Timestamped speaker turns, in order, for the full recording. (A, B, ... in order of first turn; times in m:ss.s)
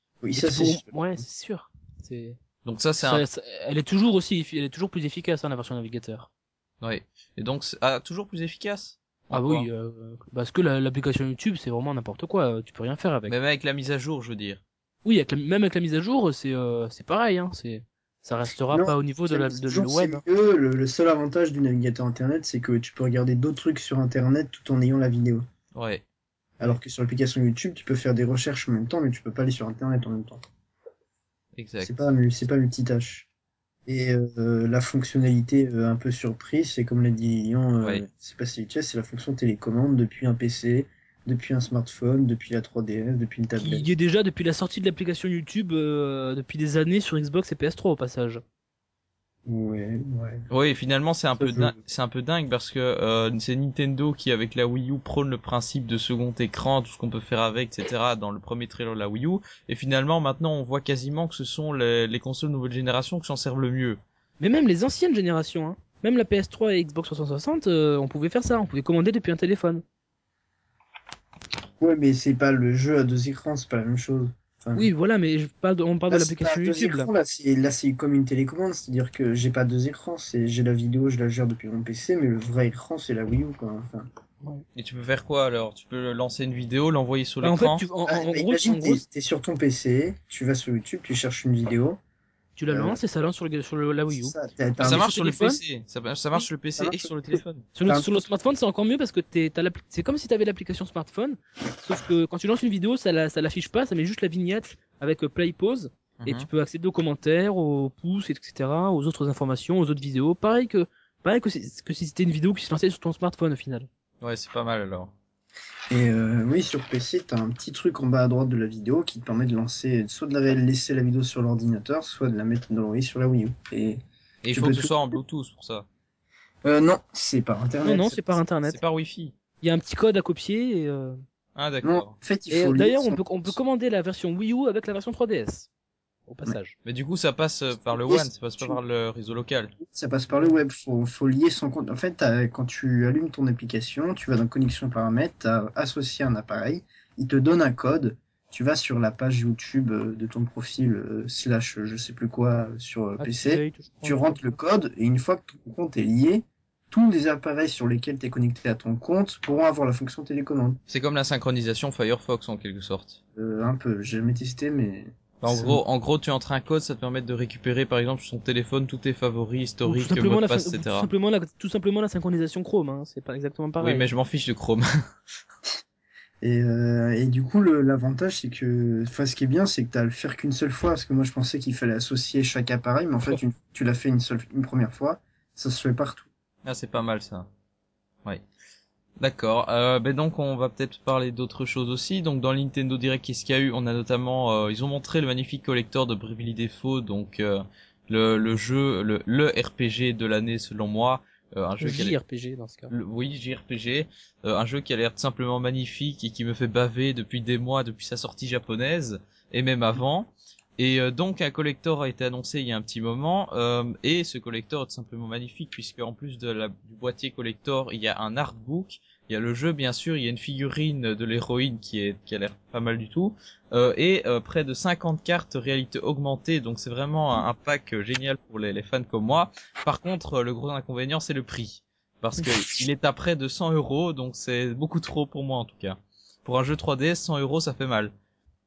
0:00.2-0:01.2 A
0:00.3-0:02.4 B
0:02.6-0:03.2 C
0:03.0-0:06.3 B
0:06.8-0:09.7 C
0:09.3-0:13.4 B
0:13.3-0:14.6 C
0:15.0-0:20.2 B
0:18.7-0:25.4 A
0:25.7-0:26.0 C
0:26.6-0:30.5 A
0:31.6-0:32.0 C
0:31.8-0:33.3 A
0:33.9-0:43.9 A
0:43.6-0:48.4 B
0:49.5-0:50.5 A
0:50.5-1:04.0 C
0:51.4-0:51.8 A
1:04.4-1:09.8 B
1:11.8-1:14.9 A
1:14.8-1:17.1 B
1:16.1-1:24.1 A
1:24.8-1:27.9 C
1:27.4-1:29.0 B
1:28.1-1:32.0 A
1:32.6-1:35.6 B
1:32.7-1:33.0 A
1:34.1-1:35.0 A
1:34.8-1:37.6 C
1:36.8-1:38.2 A
1:37.8-1:53.9 B
1:46.2-1:46.5 C
1:54.2-1:55.1 C
1:55.9-2:04.0 A
2:04.4-2:05.9 C
2:04.5-2:05.2 A
2:06.6-2:08.4 A
2:07.8-2:08.8 B
2:08.7-2:09.3 C
2:09.6-2:11.2 B
2:11.6-2:12.1 C
2:11.8-2:13.6 A
2:12.5-2:15.7 B
2:16.3-2:16.8 B
2:16.8-2:19.7 C
2:17.9-2:18.8 A
2:19.8-2:40.8 A
2:33.2-2:34.6 B
2:40.9-2:43.2 C
2:43.4-2:45.8 A
2:45.4-2:51.1 C
2:49.9-2:54.0 B
2:53.8-2:54.8 C
2:56.4-3:06.3 A
3:06.6-3:07.5 C
3:09.2-3:22.2 C
3:21.8-3:22.9 B
3:22.9-3:58.1 C